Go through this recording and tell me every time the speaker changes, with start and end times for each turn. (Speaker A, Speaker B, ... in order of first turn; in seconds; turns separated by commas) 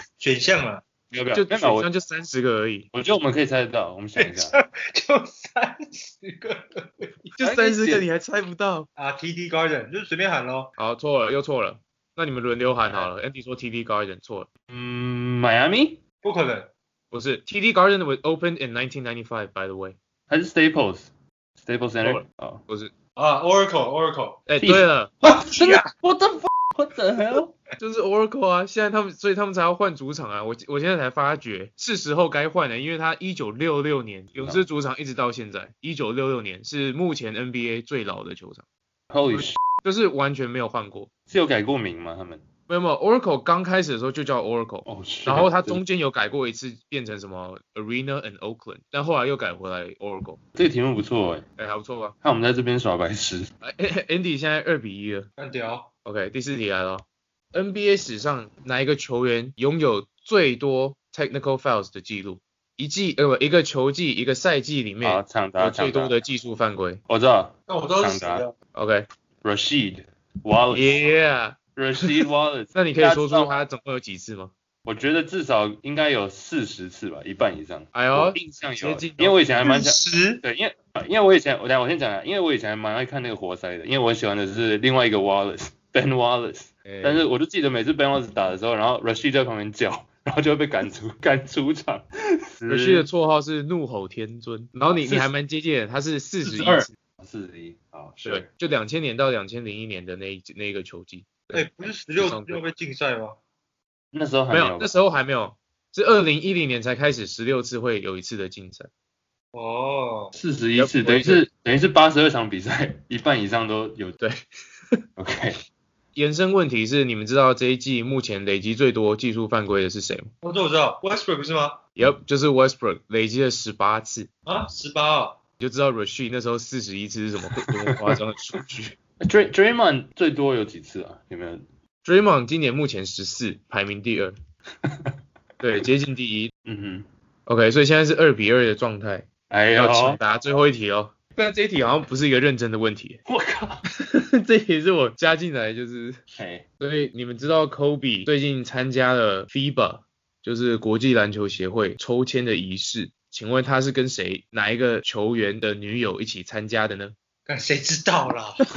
Speaker A: 0.2-0.8, Speaker B: 1.1-1.9, Speaker C: 1.3-2.9, Speaker B: 2.9-4.6, Speaker A: 4.2-7.4, Speaker C: 7.4-8.9, Speaker B: 7.4-8.1, Speaker A: 9.0-10.7, Speaker C: 10.8-14.5, Speaker B: 14.7-16.0, Speaker A: 16.2-16.7, Speaker C: 17.1-20.0, Speaker B: 20.3-21.1, Speaker B: 21.6-22.6, Speaker C: 22.0-22.9, Speaker A: 23.1-24.4, Speaker C: 24.5-25.1, Speaker B: 24.6-27.5, Speaker A: 25.5-25.8, Speaker C: 27.8-38.6, Speaker B: 34.4-34.6, Speaker B: 39.1-39.6, Speaker C: 39.3-41.1, Speaker B: 41.3-42.4, Speaker C: 42.7-50.4, Speaker B: 44.9-45.8, Speaker B: 50.5-51.5, Speaker C: 51.6-52.1, Speaker B: 52.2-53.5, Speaker C: 53.6-55.3, Speaker A: 55.4-55.9, Speaker C: 56.0-67.0, Speaker B: 65.0-66.1, Speaker B: 67.1-68.4, Speaker A: 67.7-68.5, Speaker C: 68.7-69.1, Speaker B: 69.4-71.1, Speaker C: 70.7-72.1, Speaker B: 71.8-73.6, Speaker C: 72.7-74.5, Speaker B: 74.8-93.1, Speaker C: 77.9-79.4, Speaker A: 79.6-80.4, Speaker C: 86.8-87.3, Speaker C: 92.7-96.9, Speaker B: 94.9-95.3, Speaker B: 96.4-98.5, Speaker C: 98.2-102.6, Speaker A: 101.5-103.4, Speaker B: 104.1-104.9, Speaker C: 104.5-108.9, Speaker A: 109.5-110.3, Speaker B: 110.4-114.2, Speaker C: 110.8-111.4, Speaker B: 115.2-115.6, Speaker C: 116.1-120.3, Speaker A: 120.4-121.8, Speaker C: 122.0-124.3, Speaker A: 124.5-125.4, Speaker C: 125.6-128.9, Speaker B: 127.7-128.1, Speaker B: 129.2-131.6, Speaker C: 132.1-134.3, Speaker B: 134.8-135.1, Speaker C: 135.6-136.5, Speaker B: 136.7-137.1, Speaker C: 137.5-143.2, Speaker B: 139.5-140.2, Speaker B: 143.3-143.8, Speaker C: 144.0-146.2, Speaker B: 146.3-146.6, Speaker C: 146.8-157.1, Speaker A: 157.5-158.6